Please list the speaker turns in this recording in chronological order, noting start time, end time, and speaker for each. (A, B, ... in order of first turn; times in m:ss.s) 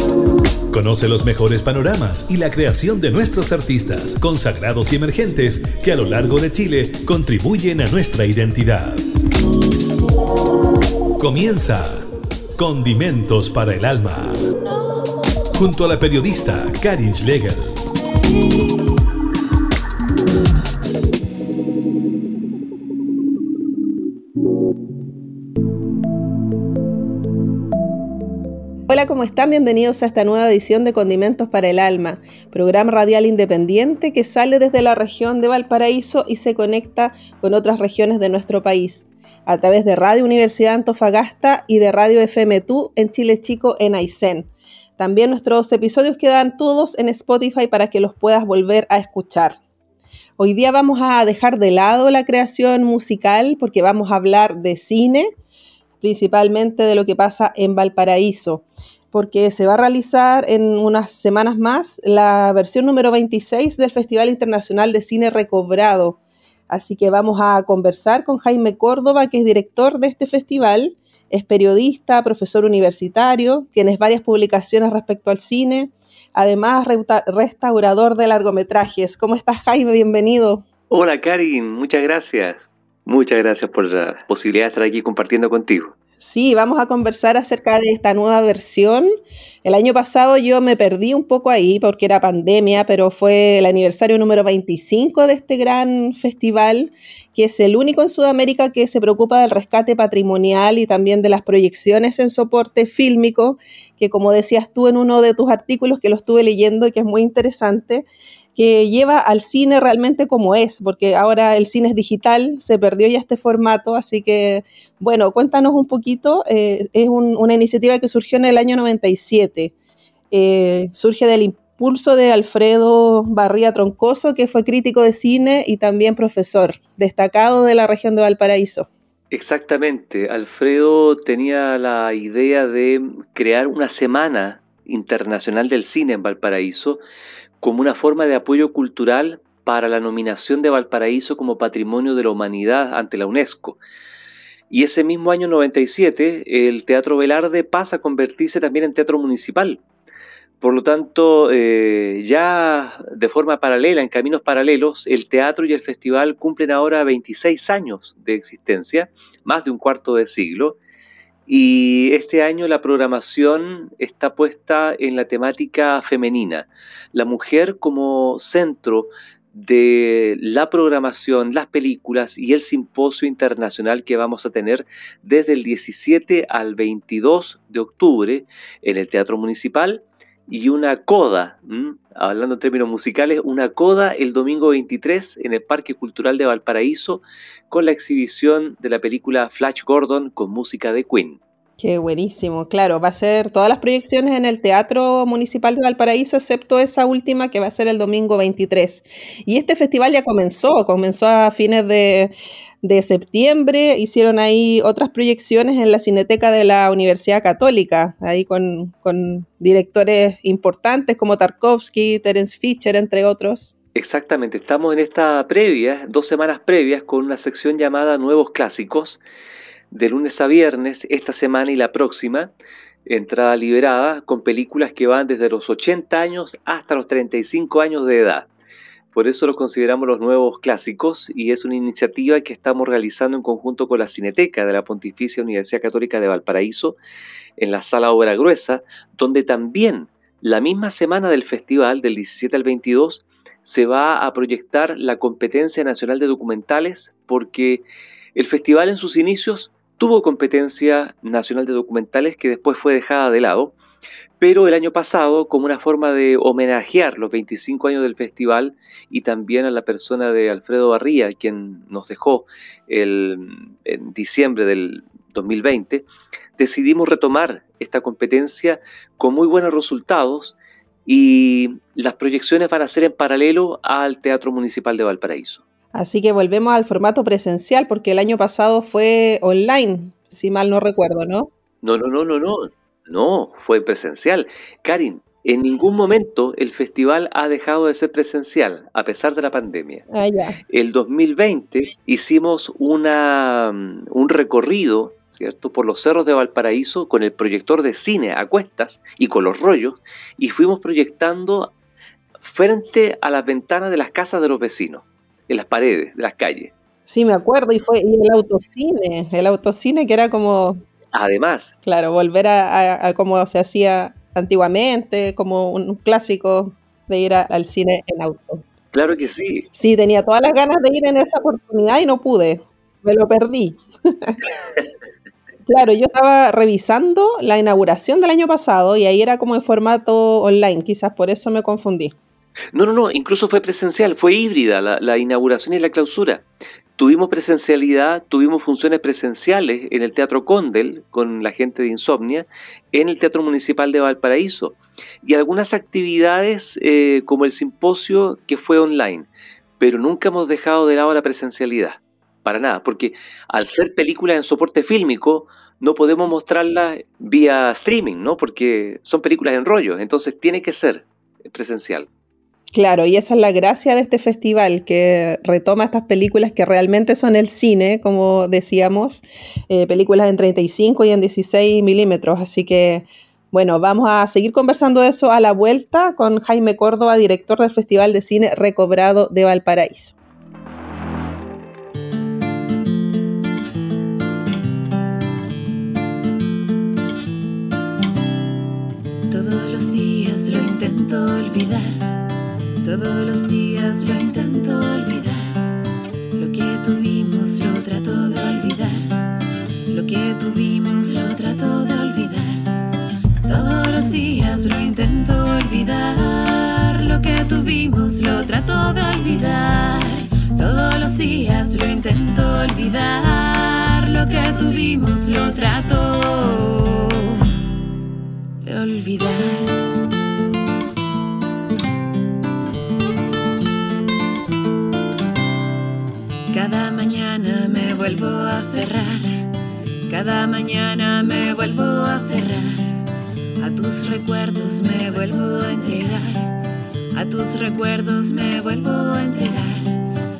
0:00.7-0:09.0 A
0:11.2-0:14.4 A
0:15.5-0:17.8 A
0:28.9-0:49.6 B
0:50.4-0:55.3 B
0:56.0-1:06.2 B
1:06.7-1:20.6 B
1:20.9-1:25.9 C
1:26.2-1:29.1 B
1:29.6-1:59.7 B
2:00.3-2:08.9 B
2:09.3-2:17.0 C
2:17.6-2:23.8 C
2:24.7-2:29.8 C
2:30.6-2:40.8 C
2:41.5-3:11.4 C
3:11.8-3:33.7 B
3:34.0-3:39.2 C
3:39.9-3:42.5 C
3:43.1-3:48.5 C
3:49.1-3:57.0 C
3:57.6-4:13.8 C
4:14.4-4:35.6 C
4:35.9-4:41.5 B
4:41.8-4:50.0 C
4:50.1-4:50.6 B
4:50.7-5:01.7 C
5:02.4-5:06.7 C
5:07.1-5:10.8 B
5:11.1-5:11.7 C
5:11.8-5:18.6 B
5:18.9-5:19.7 C
5:19.8-5:24.4 B
5:25.7-5:32.2 B
5:32.7-5:36.4 C
5:37.0-5:49.3 C
5:49.8-6:02.1 C
6:02.7-6:20.2 B
6:29.3-6:32.1 D
6:32.8-6:35.6 D
6:36.3-6:39.2 D
6:39.9-6:42.7 D
6:43.4-6:57.4 D
6:58.6-6:59.8 D
7:06.5-7:09.5 D
7:10.1-7:13.0 D
7:13.6-7:16.6 D
7:17.1-7:20.0 D